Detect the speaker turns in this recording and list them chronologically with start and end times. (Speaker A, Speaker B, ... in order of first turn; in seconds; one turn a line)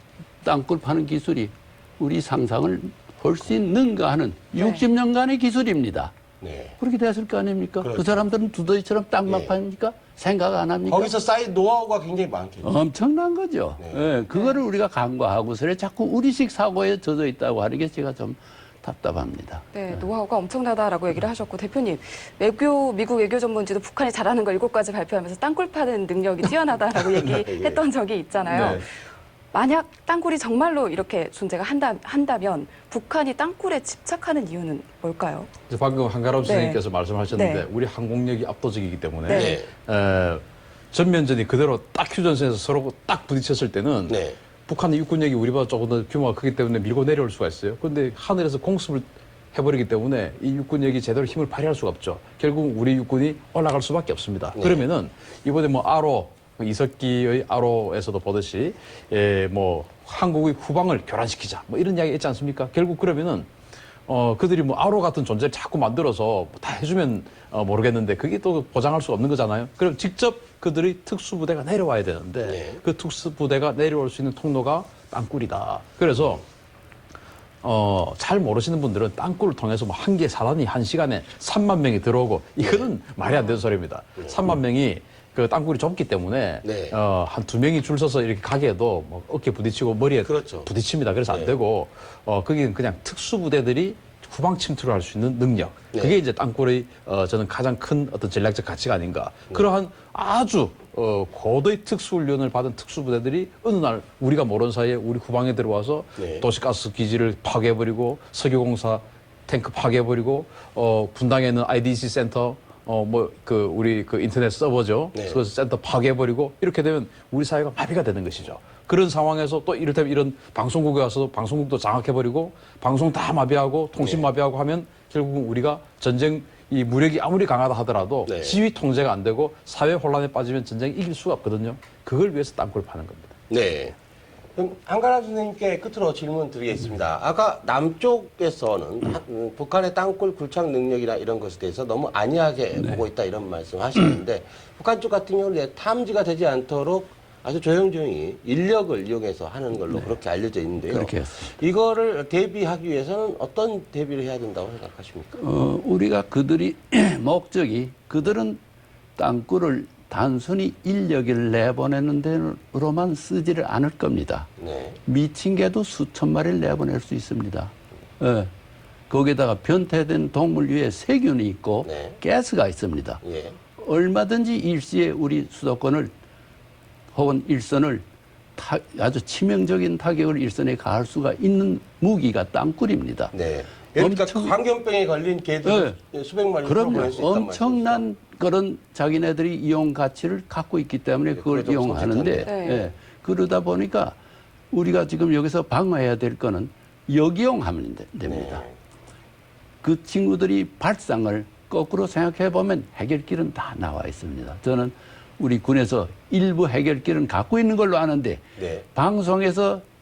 Speaker A: 0.4-6.1
Speaker B: 4.6-4.8
Speaker C: 6.4-6.8
Speaker A: 6.8-11.1
Speaker C: 7.8-8.2
Speaker C: 9.3-9.6
Speaker C: 10.8-12.7
Speaker A: 12.6-20.0
Speaker C: 13.8-14.1
Speaker B: 14.3-14.6
Speaker B: 19.7-28.9
Speaker C: 27.1-27.8
Speaker D: 28.5-28.9
Speaker B: 29.5-35.5
Speaker D: 35.7-63.5
Speaker B: 36.4-37.6
Speaker B: 39.3-39.6
Speaker C: 39.3-39.7
Speaker C: 44.1-44.4
Speaker C: 54.5-54.9
Speaker D: 64.1-76.4
Speaker C: 72.4-72.8
Speaker D: 77.6-133.3
Speaker C: 82.6-82.9
Speaker C: 84.2-84.5
Speaker C: 86.6-87.0
Speaker C: 90.2-90.7
Speaker C: 91.3-91.6
Speaker C: 95.9-96.2
Speaker C: 106.2-106.4
Speaker C: 115.1-115.4
Speaker C: 124.0-124.3
Speaker C: 128.2-128.6
Speaker C: 133.5-133.9
Speaker C: 134.6-155.3
Speaker A: 142.8-143.0
Speaker A: 149.9-150.2
Speaker A: 150.8-151.6
Speaker A: 155.3-158.6
Speaker A: 159.2-164.5
Speaker C: 164.6-165.0
Speaker A: 165.0-168.5
Speaker A: 169.1-173.2
Speaker C: 171.8-172.2
Speaker C: 173.2-173.6
Speaker A: 173.7-176.1
Speaker A: 177.1-178.0
Speaker A: 178.6-183.3
Speaker C: 183.3-188.0
Speaker A: 183.9-184.5
Speaker A: 185.6-186.0
Speaker A: 186.6-194.2
Speaker C: 191.4-192.5
Speaker B: 192.4-192.9
Speaker A: 194.7-198.6
Speaker C: 198.2-198.7
Speaker A: 199.8-208.4
Speaker C: 208.6-208.8
Speaker A: 208.9-209.8